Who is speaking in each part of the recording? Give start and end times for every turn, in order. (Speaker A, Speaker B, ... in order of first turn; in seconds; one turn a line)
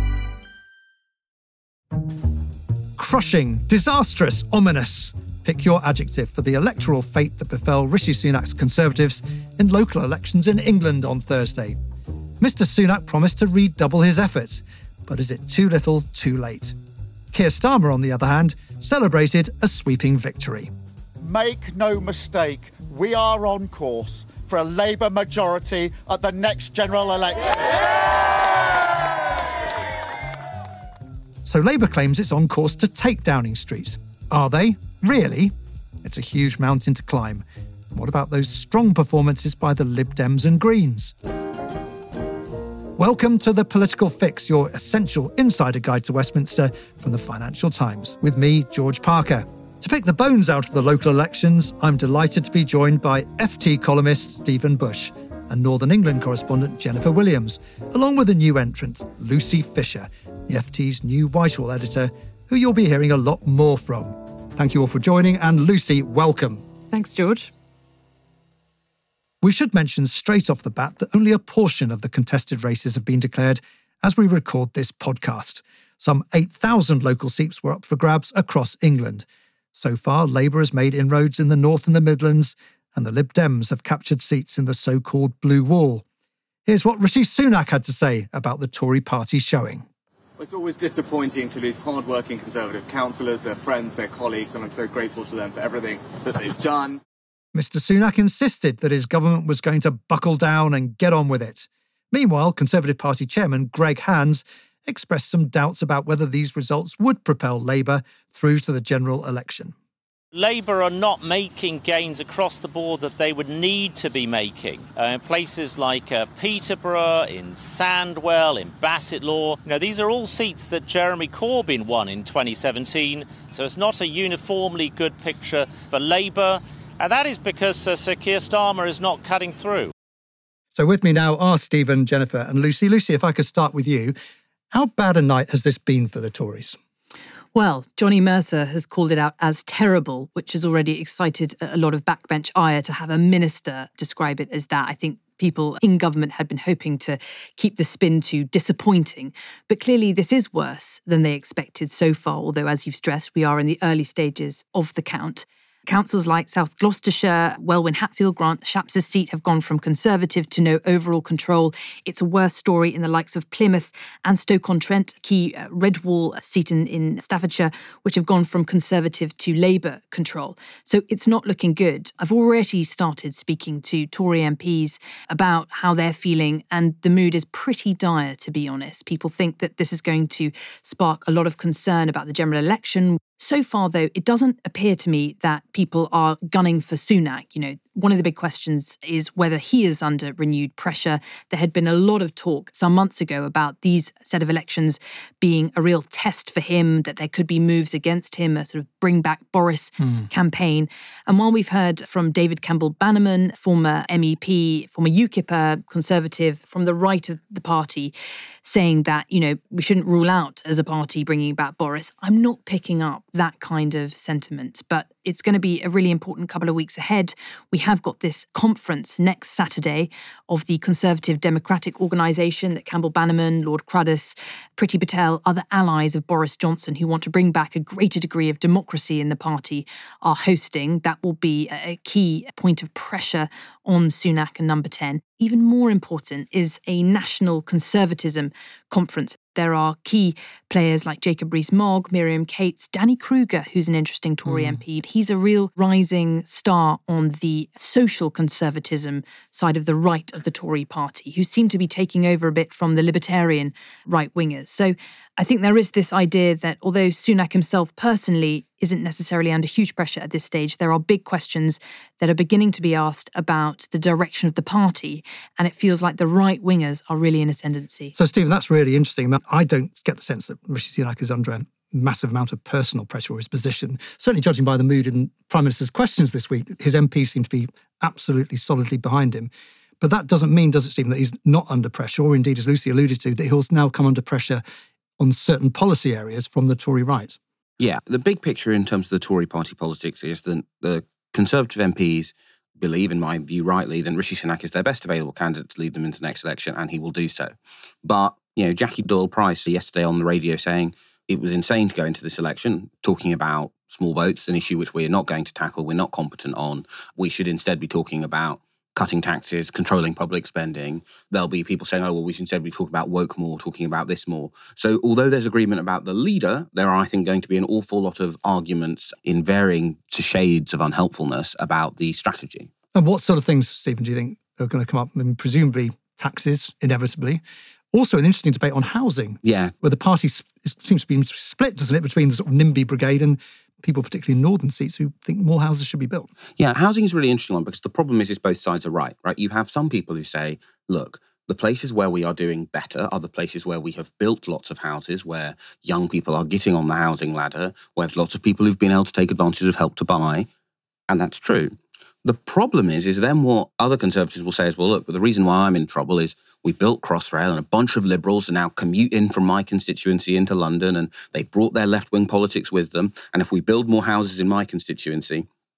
Speaker A: 3.0-11.8
Speaker A: 12.4-16.8
Speaker A: 17.3-20.7
Speaker B: 21.2-27.9
Speaker A: 31.4-41.1
Speaker A: 43.0-66.6
Speaker C: 66.9-67.5
Speaker A: 69.4-86.0
Speaker A: 86.7-89.9
Speaker D: 90.4-97.0
Speaker A: 97.5-109.7
Speaker E: 110.3-129.9
Speaker A: 130.7-134.2
Speaker A: 134.7-136.8
Speaker C: 137.5-208.1
Speaker A: 200.0-200.3
Speaker C: 208.6-268.1
Speaker A: 244.4-244.8
Speaker A: 268.1-284.6
Speaker A: 285.2-287.4
Speaker F: 287.8-297.5
Speaker F: 298.0-322.7
Speaker A: 322.9-327.4
Speaker A: 327.9-336.3
Speaker F: 329.4-329.7
Speaker F: 336.6-350.5
Speaker F: 351.1-365.5